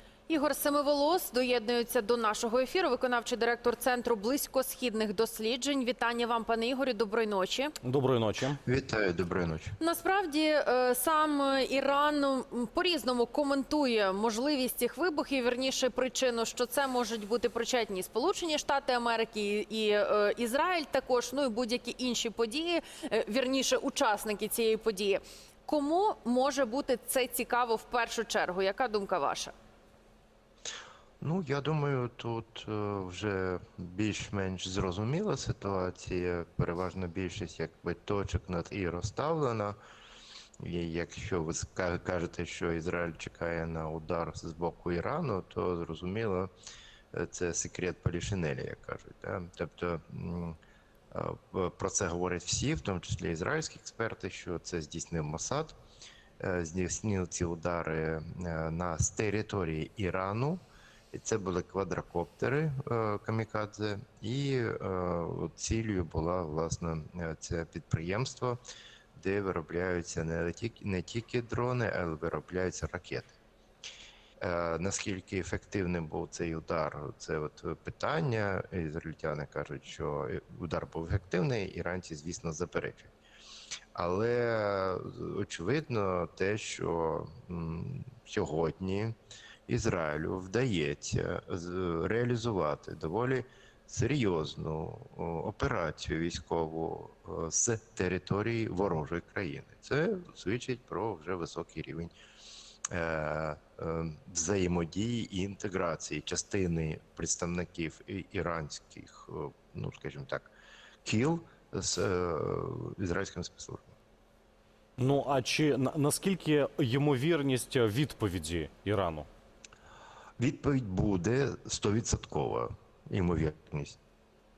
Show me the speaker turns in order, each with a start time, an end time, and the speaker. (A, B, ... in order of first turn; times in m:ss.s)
0:00.3-0:07.7 A
0:07.8-0:08.6 B
0:08.6-0:09.8 C
0:09.8-0:29.5 A
0:31.2-0:39.8 C
0:40.6-0:46.5 C
0:47.1-0:50.6 C
0:51.1-0:55.7 C
0:56.4-1:08.6 C
1:09.1-1:13.4 C
1:14.4-1:23.1 C
1:24.0-1:29.2 C
1:29.7-1:42.1 C
1:42.9-1:50.5 C
1:51.0-1:53.9 C
1:55.0-1:59.3 B
2:00.4-2:04.0 C